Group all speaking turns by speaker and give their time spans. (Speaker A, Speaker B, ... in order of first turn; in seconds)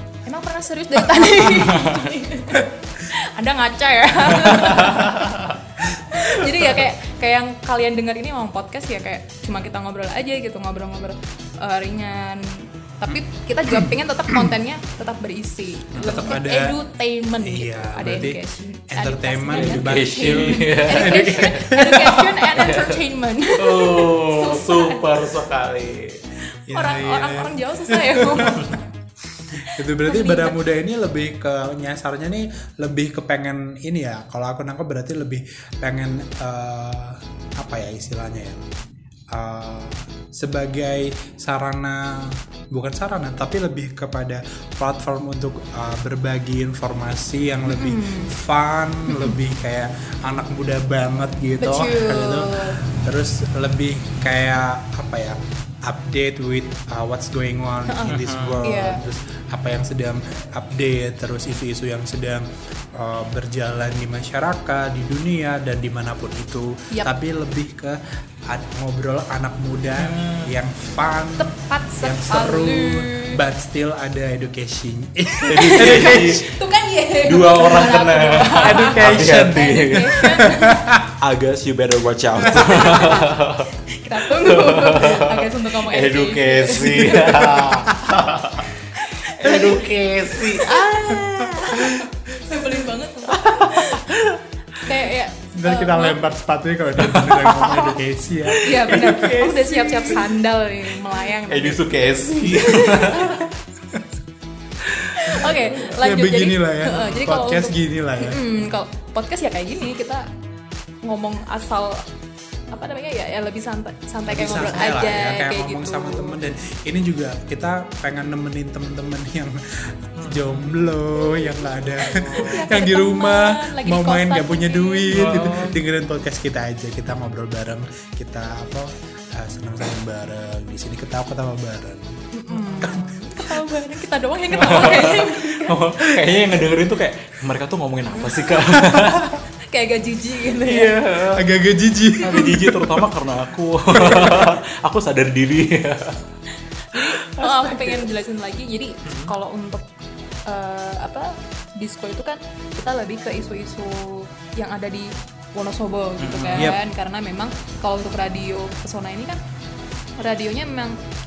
Speaker A: 0.3-25.2, 26.7-28.8, 29.6-30.6, 47.7-48.3, 51.6-52.8, 57.9-59.0, 71.4-73.4, 75.6-80.8, 82.5-87.7, 88.9-94.1, 94.8-96.2, 98.6-103.5, 105.1-110.3, 111.0-112.0, 112.7-116.4, 122.0-125.6, 132.3-135.8, 138.2-138.8, 139.6-141.0, 146.8-149.8, 150.5-159.4, 160.2-161.0
Speaker B: 1.5-2.1, 4.6-5.5, 15.9-16.2, 19.5-21.7, 22.5-23.0, 23.6-26.2, 58.1-58.7, 70.0-70.5, 75.5-76.5, 77.2-80.4, 81.2-83.7, 84.3-88.7, 89.2-92.0, 93.3-94.4, 97.0-100.4, 101.2-103.5, 104.8-105.9, 120.2-120.9, 122.0-122.7, 125.1-125.8, 134.5-139.4, 140.6-141.5, 142.2-146.2, 146.9-148.1, 149.1-149.3, 156.2-156.7
Speaker C: 13.1-14.5, 16.0-16.8, 17.4-22.4, 26.7-28.8, 29.4-38.6, 39.3-76.4, 78.6-81.1, 82.5-82.9, 87.2-88.2, 91.8-92.0, 95.5-99.2, 106.0-108.5, 114.3-133.2, 138.8-139.2, 141.3-143.1, 143.9-144.6